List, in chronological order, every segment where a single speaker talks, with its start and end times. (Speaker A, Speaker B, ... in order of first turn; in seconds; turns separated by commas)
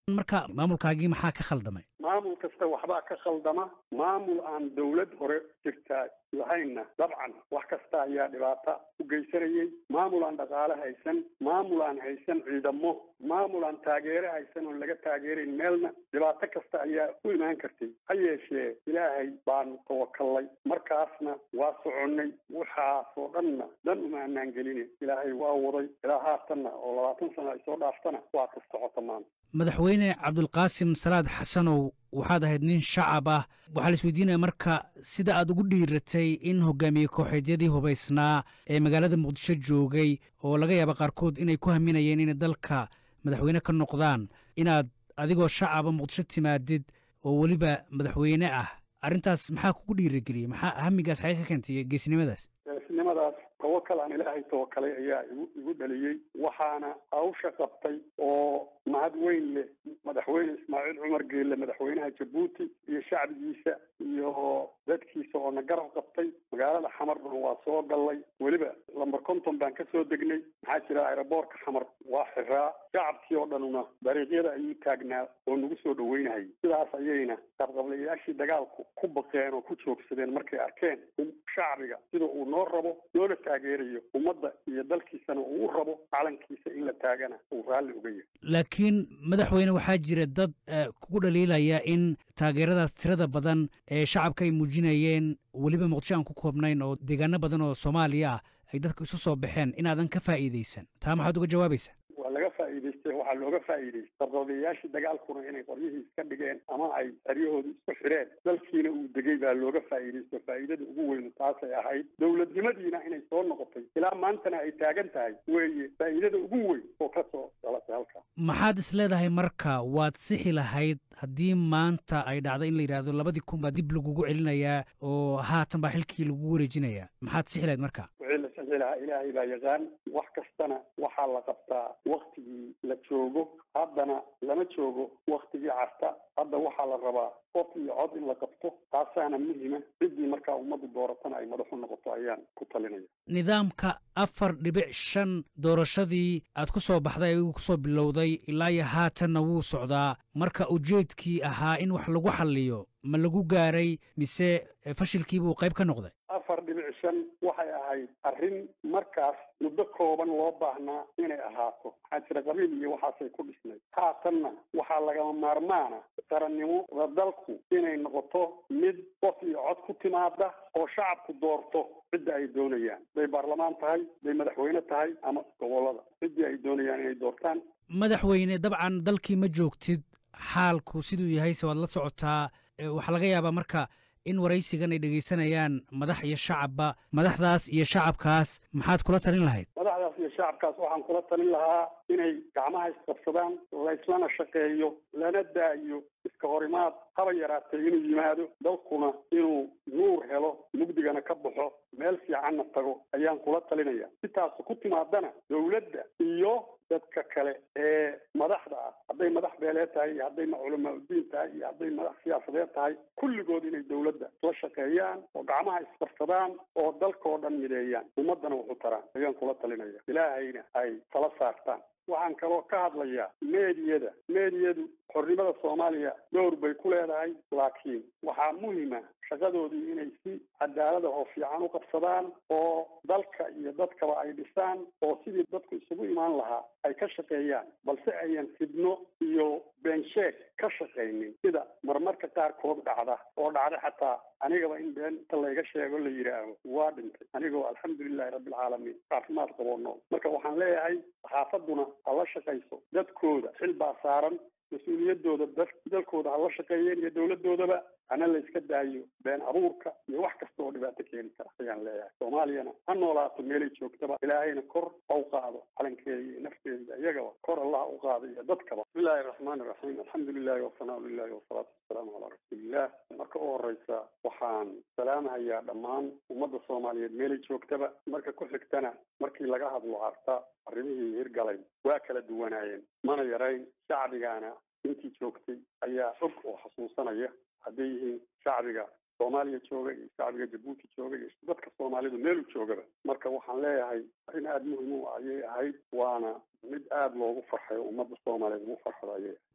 Speaker A: 0.1-1.8, Speaker B: 2.0-29.2, Speaker A: 29.6-52.4, Speaker B: 52.7-88.3, Speaker A: 88.5-101.9, Speaker B: 102.2-118.2, Speaker A: 118.4-128.1, Speaker B: 128.2-143.1, Speaker A: 143.3-156.1, Speaker B: 156.3-177.6, Speaker A: 177.9-189.7, Speaker B: 189.8-299.4